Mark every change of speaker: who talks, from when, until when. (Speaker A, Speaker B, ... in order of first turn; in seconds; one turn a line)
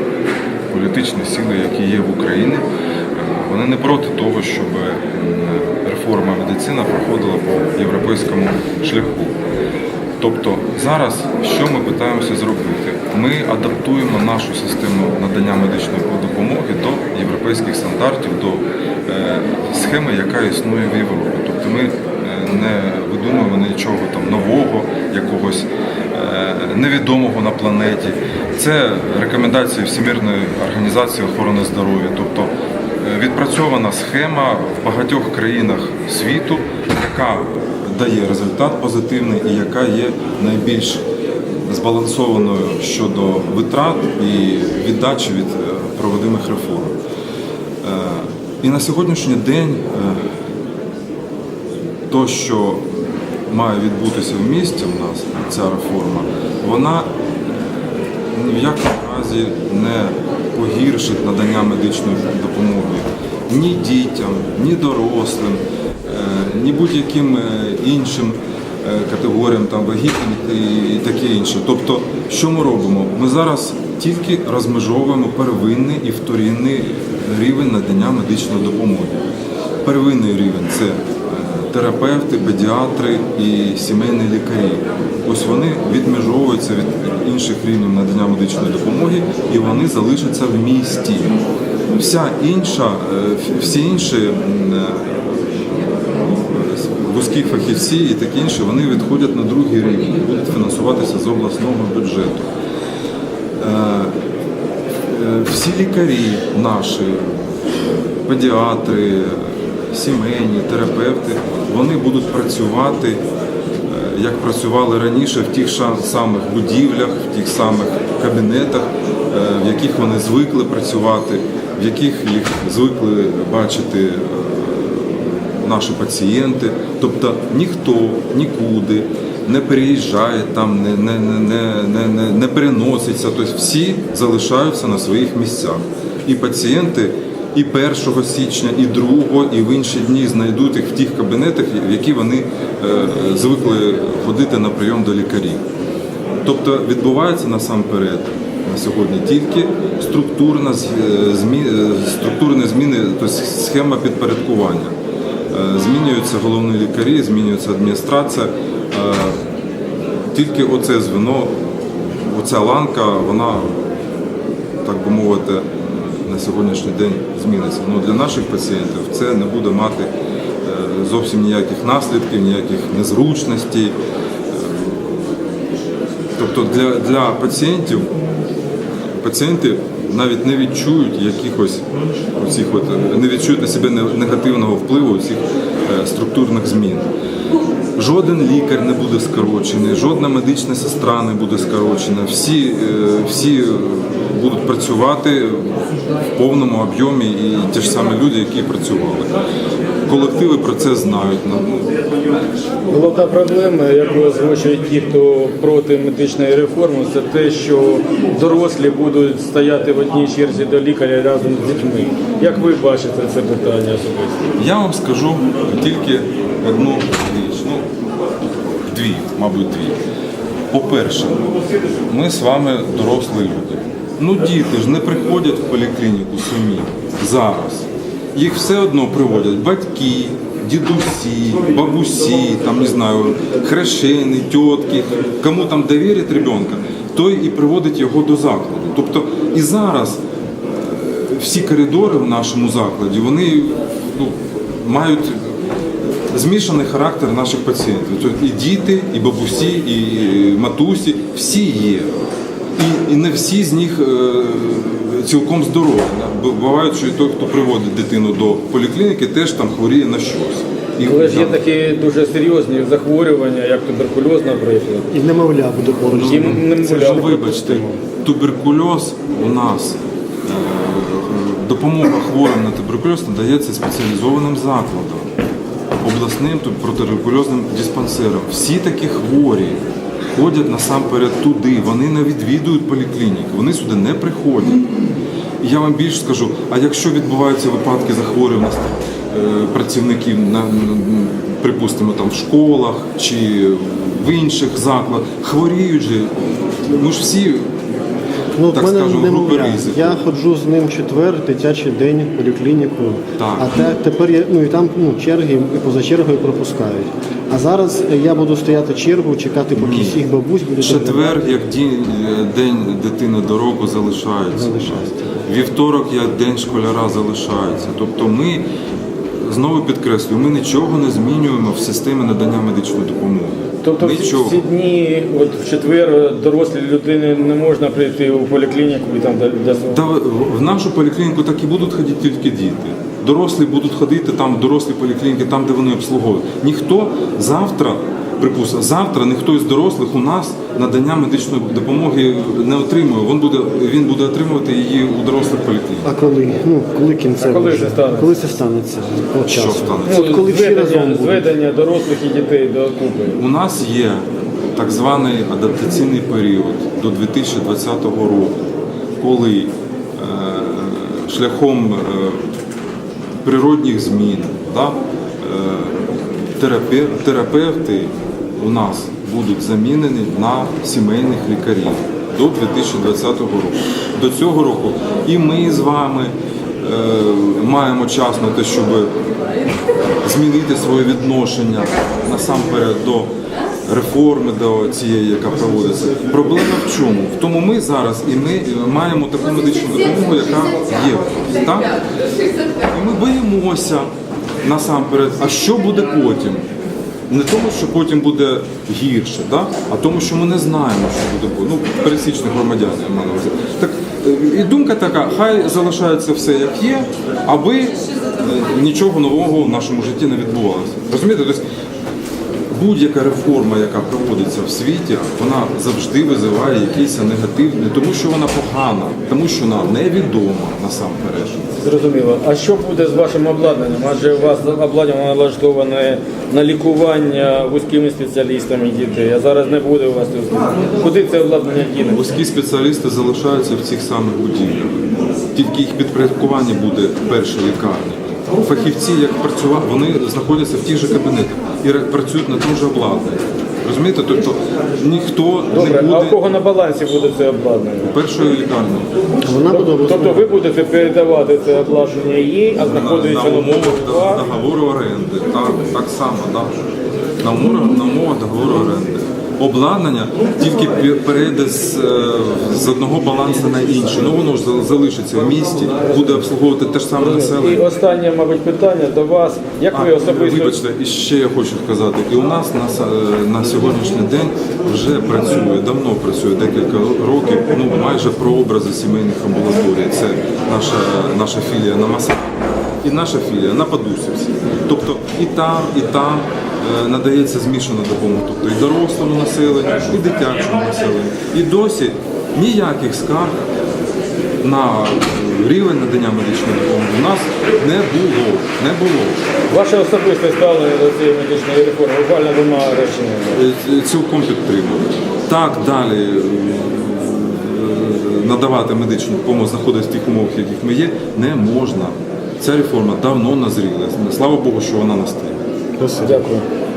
Speaker A: 0.7-9.4
Speaker A: 10.2-41.0
Speaker A: 41.6-47.0
Speaker A: 47.8-50.2
Speaker A: 52.1-52.9
Speaker A: 53.5-57.1
Speaker A: 58.3-79.2
Speaker A: 79.8-91.4
Speaker A: 91.9-95.1
Speaker A: 96.2-102.5
Speaker A: 103.6-104.2
Speaker A: 105.1-107.4
Speaker A: 108.2-113.2
Speaker A: 113.9-145.6
Speaker A: 146.4-154.9
Speaker A: 155.5-159.4
Speaker A: 160.3-163.9
Speaker A: 164.8-170.1
Speaker A: 170.6-173.9
Speaker A: 174.5-175.2
Speaker A: 176.4-178.1
Speaker A: 179.2-187.1
Speaker A: 188.0-195.8
Speaker A: 196.3-199.3
Speaker A: 200.1-201.9
Speaker B: 202.9-214.4
Speaker A: 214.6-217.8
Speaker A: 218.9-220.0
Speaker A: 220.7-221.5
Speaker A: 222.0-245.5
Speaker A: 246.3-252.2
Speaker A: 252.8-261.6
Speaker B: 261.0-265.1
Speaker C: 265.1-267.9
Speaker A: 266.1-275.3
Speaker B: 266.1-267.8
Speaker A: 276.0-279.8
Speaker A: 280.3-284.8
Speaker A: 285.6-297.7
Speaker C: 298.5-311.5
Speaker A: 298.7-300.2
Speaker A: 303.4-303.7
Speaker A: 309.8-310.2
Speaker A: 310.8-318.6
Speaker C: 314.5-315.4
Speaker A: 319.4-324.6
Speaker B: 323.8-330.1
Speaker A: 329.9-346.1
Speaker C: 346.0-351.4
Speaker B: 347.4-348.4
Speaker A: 349.5-350.3
Speaker B: 350.0-353.4
Speaker A: 353.3-358.6
Speaker A: 359.2-362.4
Speaker A: 363.4-379.1
Speaker A: 380.2-383.3
Speaker A: 383.9-392.0
Speaker A: 392.8-394.1
Speaker A: 394.6-396.6
Speaker A: 397.3-411.6
Speaker A: 412.7-421.7
Speaker B: 421.8-432.2
Speaker A: 432.0-435.0
Speaker A: 435.5-446.4
Speaker B: 445.7-448.2
Speaker A: 448.0-449.1
Speaker C: 449.4-450.5
Speaker B: 449.6-454.4
Speaker A: 452.8-456.7
Speaker A: 457.4-467.9
Speaker B: 466.0-466.4
Speaker B: 467.1-470.8
Speaker A: 469.9-493.6
Speaker A: 494.6-499.4
Speaker B: 499.7-503.6
Speaker A: 503.5-515.6
Speaker C: 516.0-516.4
Speaker B: 516.2-516.6